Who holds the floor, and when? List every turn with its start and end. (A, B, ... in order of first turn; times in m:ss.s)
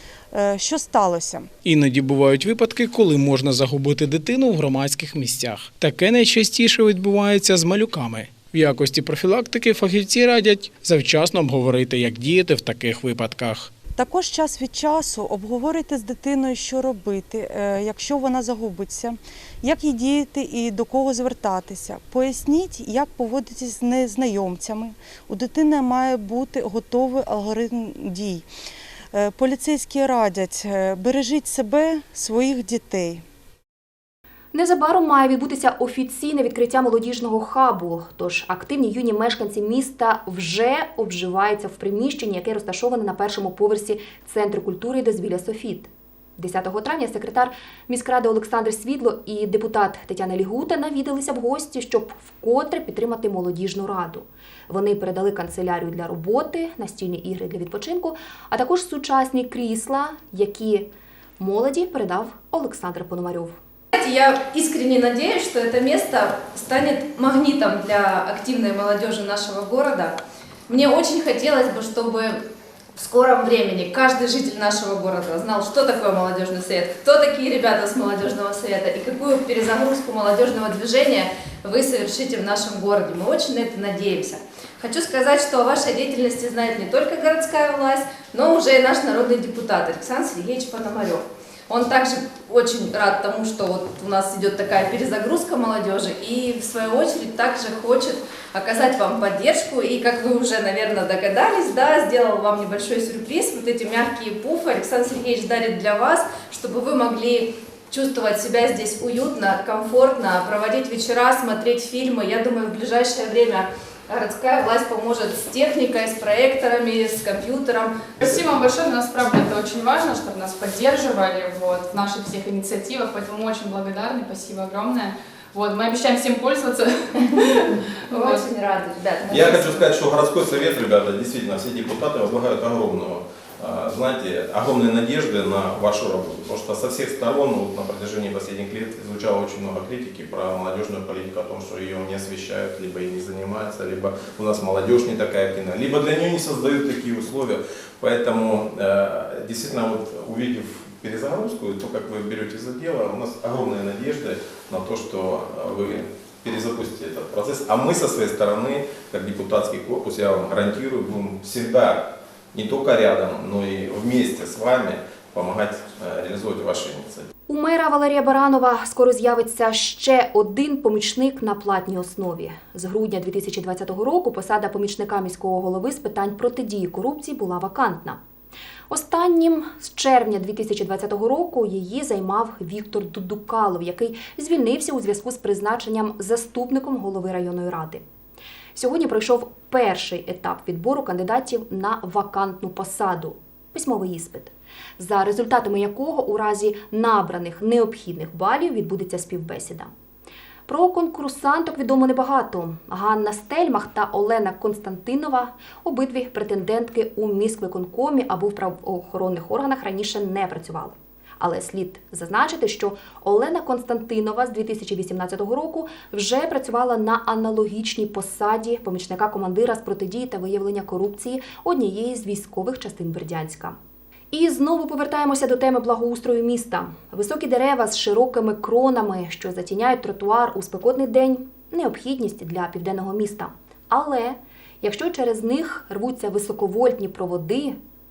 0:00.3-0:01.5 A
0:01.6-0:13.7 B
0:14.0-0:28.4 A
0:29.1-0:33.2 A
0:34.5-1:03.6 C
1:03.9-1:12.4 D
1:13.0-1:58.3 D
1:58.3-2:06.9 E
2:08.1-2:08.5 E
2:08.1-2:09.9 D
2:09.3-2:47.3 F
2:47.5-2:58.2 C
2:58.9-3:08.0 C
3:08.7-3:19.9 C
3:20.7-3:43.8 C
3:44.3-3:57.8 C